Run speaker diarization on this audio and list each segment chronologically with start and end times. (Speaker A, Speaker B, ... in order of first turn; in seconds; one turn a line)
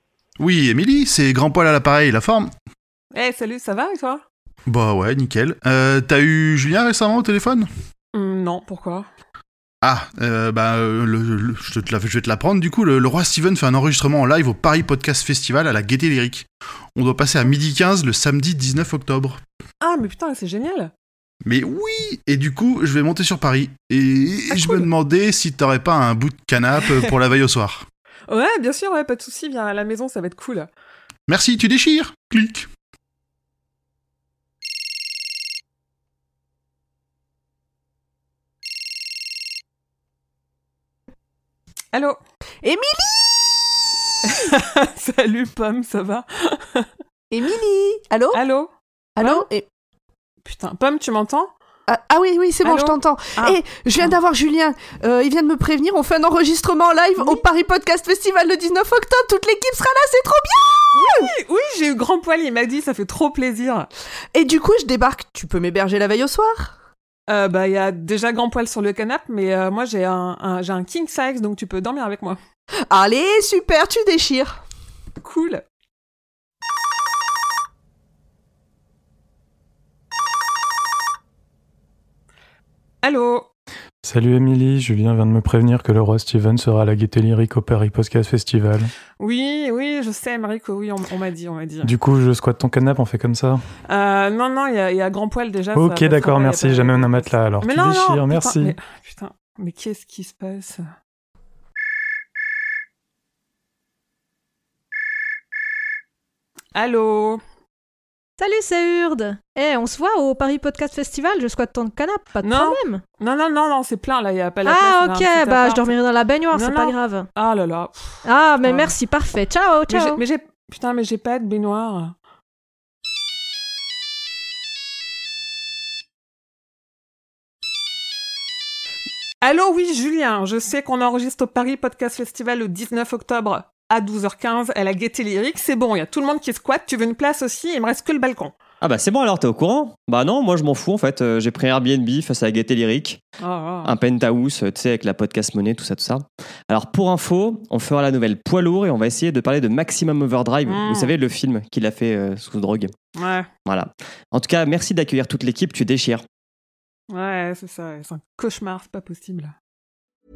Speaker A: 0.4-2.5
Speaker B: 3.1-4.2
Speaker A: 4.7-7.7
Speaker B: 8.1-9.1
Speaker A: 9.8-19.4
Speaker B: 19.8-20.9
Speaker A: 21.4-27.9
Speaker B: 24.5-24.8
Speaker B: 28.3-30.7
Speaker A: 31.3-32.7
Speaker B: 41.9-42.2
Speaker C: 42.6-43.6
Speaker B: 44.3-46.9
Speaker C: 47.3-48.4
Speaker B: 48.3-49.4
Speaker C: 49.2-49.7
Speaker B: 50.4-51.5
Speaker C: 51.9-61.3
Speaker B: 52.6-54.1
Speaker B: 60.9-63.9
Speaker C: 64.3-66.8
Speaker B: 67.3-72.4
Speaker C: 72.9-74.6
Speaker B: 75.2-75.6
Speaker B: 83.0-83.5
Speaker D: 84.0-88.9
Speaker B: 89.2-91.9
Speaker D: 91.8-93.6
Speaker B: 93.9-100.8
Speaker D: 95.7-98.8
Speaker B: 106.7-107.4
Speaker E: 108.4-113.0
Speaker B: 112.4-115.9
Speaker E: 114.6-117.3
Speaker B: 116.5-118.9
Speaker E: 118.2-120.2
Speaker B: 119.9-122.1
Speaker B: 129.4-138.5
Speaker F: 138.8-143.2
Speaker B: 143.4-143.9
Speaker F: 143.8-152.9
Speaker B: 150.7-151.1
Speaker B: 153.2-153.5
Speaker F: 153.7-156.2
Speaker B: 157.1-159.5